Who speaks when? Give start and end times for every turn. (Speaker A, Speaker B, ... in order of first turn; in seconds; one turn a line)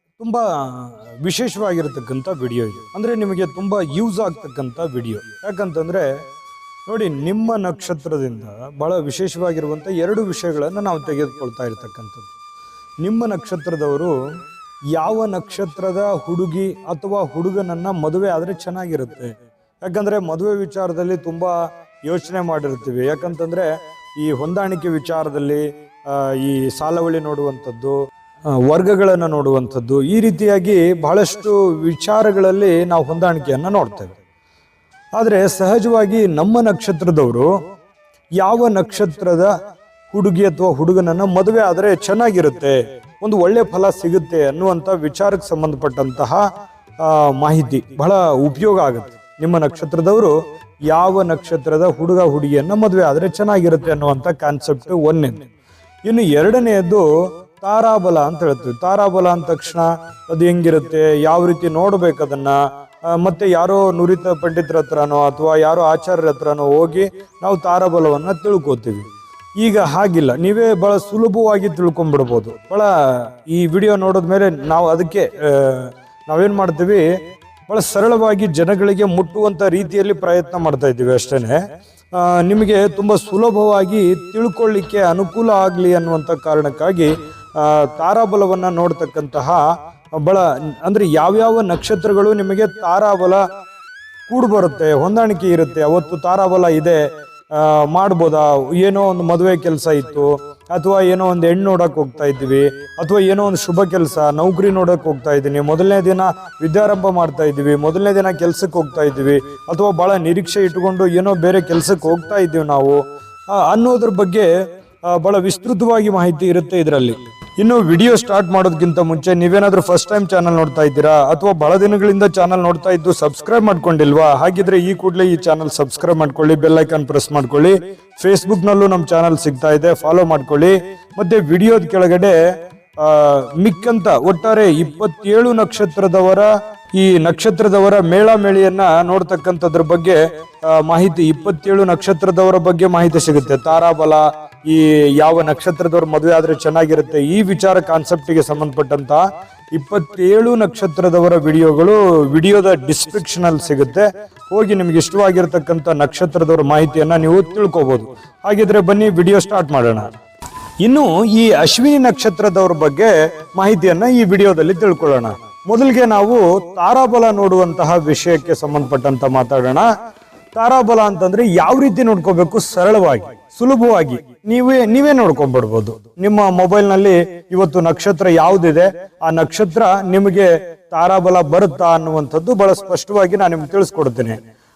Speaker A: 0.2-6.0
Speaker A: 6.9-12.3
Speaker A: 13.0-14.1
Speaker A: 14.9-19.3
Speaker A: 19.8-21.5
Speaker A: 22.1-23.7
Speaker A: 24.2-27.9
Speaker A: 28.5-34.2
Speaker A: 35.1-37.5
Speaker A: 38.4-39.5
Speaker A: 40.1-46.4
Speaker A: 47.0-50.4
Speaker A: 50.9-55.5
Speaker A: 56.1-57.0
Speaker A: 57.6-62.6
Speaker A: 63.2-69.0
Speaker A: 69.6-77.0
Speaker A: 77.7-81.6
Speaker A: 82.2-89.6
Speaker A: 90.2-93.4
Speaker A: 94.3-97.0
Speaker A: 97.5-113.0
Speaker A: 113.6-114.5
Speaker A: 115.1-132.4
Speaker A: 133.0-149.2
Speaker A: 149.7-160.1
Speaker A: 160.8-169.9
Speaker A: 170.6-184.4